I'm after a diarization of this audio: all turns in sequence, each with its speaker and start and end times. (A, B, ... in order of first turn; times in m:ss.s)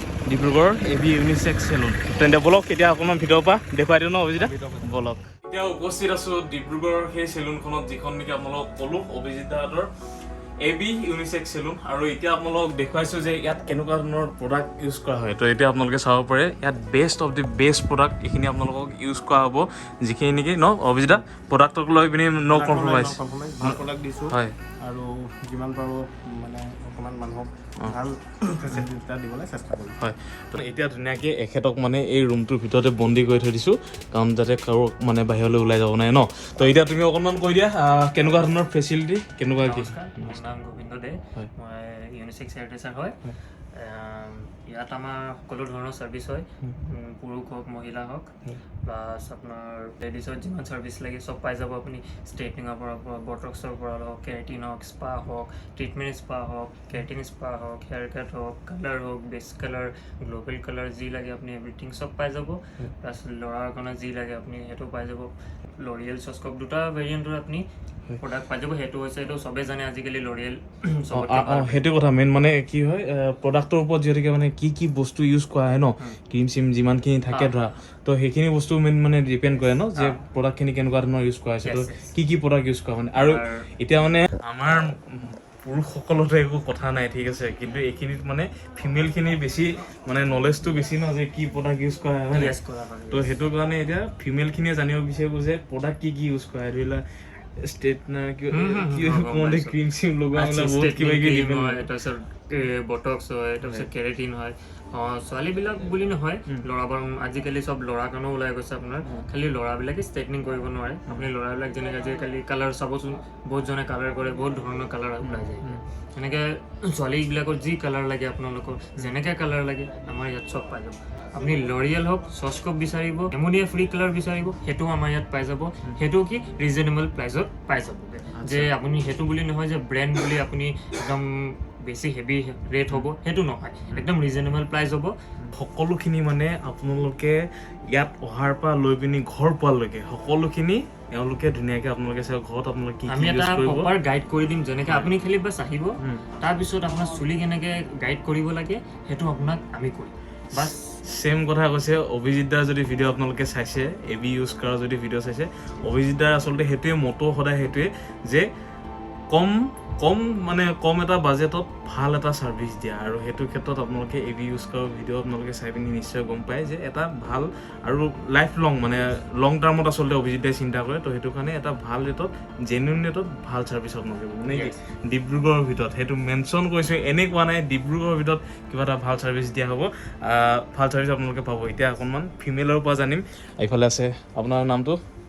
0:00.3-0:09.9 A
0:04.4-0:04.9 B
0:10.6-0:24.6 A
0:22.5-0:30.0 B
0:30.0-0:40.4 A
0:39.6-0:43.2 C
0:43.7-0:48.3 C
0:48.8-1:07.7 C
1:08.2-1:11.9 C
1:11.1-1:32.6 A
1:17.3-1:17.6 C
1:21.6-1:22.1 C
1:23.2-1:23.6 C
1:32.3-1:33.4 C
1:33.1-1:37.0 A
1:37.6-1:41.9 A
1:38.5-1:39.8 C
1:40.3-2:15.2 C
1:43.6-1:43.9 A
1:55.2-1:55.8 A
2:08.4-2:08.7 A
2:15.5-2:23.9 A
2:23.1-2:31.0 C
2:30.5-2:38.5 A
2:39.3-3:05.0 A